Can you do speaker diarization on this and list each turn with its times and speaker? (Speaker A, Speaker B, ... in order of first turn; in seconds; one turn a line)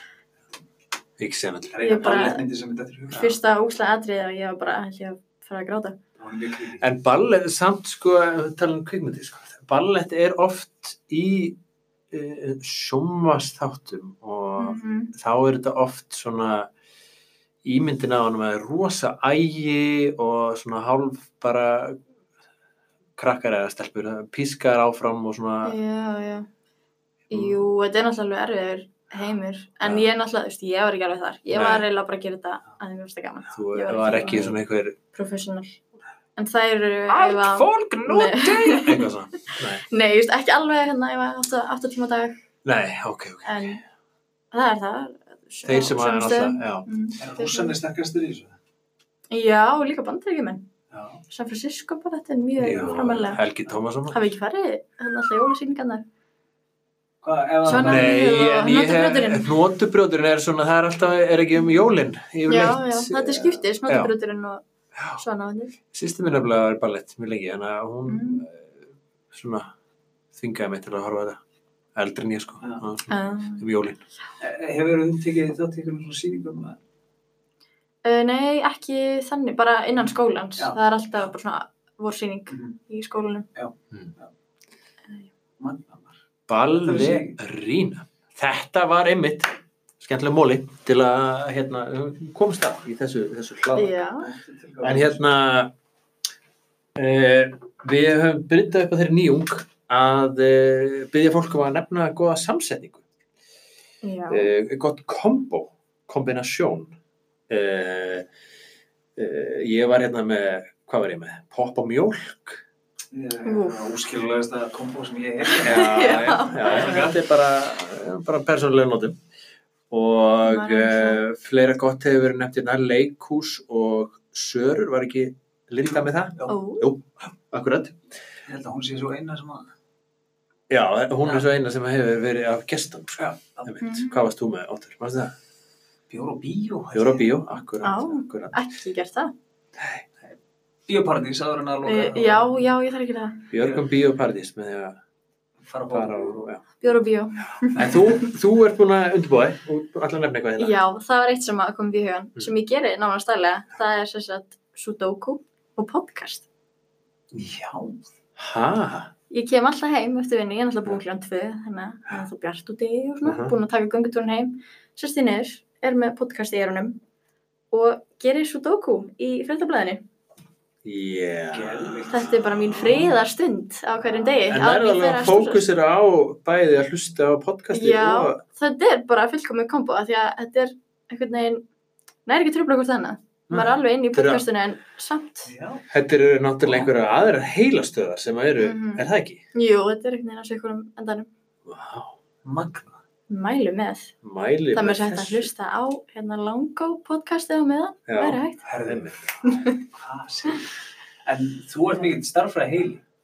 Speaker A: 1.2-1.8
Speaker B: 1.7-3.4
Speaker C: 1.8-2.5
Speaker C: 3.1-6.0
Speaker B: 6.2-6.9
Speaker A: 6.8-11.6
Speaker A: 12.1-16.7
Speaker C: 14.6-15.1
Speaker A: 17.6-22.0
Speaker A: 23.2-25.8
Speaker C: 25.6-26.5
Speaker C: 27.3-34.6
Speaker A: 27.3-27.6
Speaker A: 31.5-31.8
Speaker A: 33.5-35.0
Speaker C: 35.1-35.8
Speaker C: 36.4-39.1
Speaker A: 37.1-39.8
Speaker C: 39.9-42.4
Speaker A: 42.6-43.8
Speaker C: 43.5-43.8
Speaker C: 44.5-47.8
Speaker A: 45.6-46.9
Speaker B: 47.2-48.5
Speaker C: 49.3-50.7
Speaker B: 50.9-51.2
Speaker C: 51.3-53.4
Speaker A: 52.6-54.3
Speaker C: 54.1-56.0
Speaker B: 57.2-58.2
Speaker A: 57.7-64.1
Speaker C: 57.7-59.5
Speaker C: 62.5-64.6
Speaker A: 65.0-65.2
Speaker C: 65.2-65.7
Speaker A: 65.9-69.7
Speaker C: 68.1-68.4
Speaker A: 70.3-71.4
Speaker A: 72.0-74.0
Speaker C: 73.1-73.6
Speaker B: 74.4-76.8
Speaker C: 78.0-83.5
Speaker B: 83.5-84.3
Speaker B: 85.6-86.2
Speaker A: 86.5-94.0
Speaker B: 86.7-87.4
Speaker C: 93.8-94.3
Speaker B: 94.2-95.2
Speaker A: 94.8-95.7
Speaker A: 97.0-103.0
Speaker C: 104.0-104.5
Speaker A: 104.3-107.0
Speaker A: 107.5-108.3
Speaker A: 109.2-112.6
Speaker B: 113.1-117.2
Speaker C: 113.5-113.8
Speaker C: 115.5-117.1
Speaker A: 115.6-119.2
Speaker A: 119.9-128.0
Speaker C: 120.4-121.2
Speaker C: 126.5-126.9
Speaker B: 128.5-129.7
Speaker A: 130.7-135.3
Speaker B: 133.2-133.8
Speaker C: 133.8-134.2
Speaker B: 136.1-137.3
Speaker A: 136.9-138.6
Speaker C: 137.8-139.3
Speaker B: 140.9-142.7
Speaker C: 141.8-143.5
Speaker A: 143.5-145.0
Speaker B: 145.7-146.5
Speaker A: 145.9-146.6
Speaker C: 146.8-148.3
Speaker A: 147.7-150.7
Speaker C: 150.6-156.5
Speaker B: 157.3-158.1
Speaker A: 158.4-159.1
Speaker C: 159.3-167.0
Speaker A: 163.2-163.5
Speaker C: 167.7-170.0
Speaker A: 170.8-173.1
Speaker B: 171.5-172.3
Speaker C: 172.1-175.7
Speaker B: 174.1-174.4
Speaker A: 174.5-178.4
Speaker C: 177.7-181.6
Speaker C: 182.3-185.5
Speaker A: 183.5-184.5
Speaker B: 185.5-185.8
Speaker A: 185.9-189.4
Speaker C: 188.6-189.0
Speaker C: 189.6-191.3
Speaker A: 191.7-192.2
Speaker B: 192.4-193.0
Speaker C: 193.3-194.1
Speaker A: 194.2-195.5
Speaker C: 194.7-198.6
Speaker A: 198.1-199.4
Speaker B: 198.7-200.7
Speaker C: 199.4-199.8
Speaker B: 201.2-203.0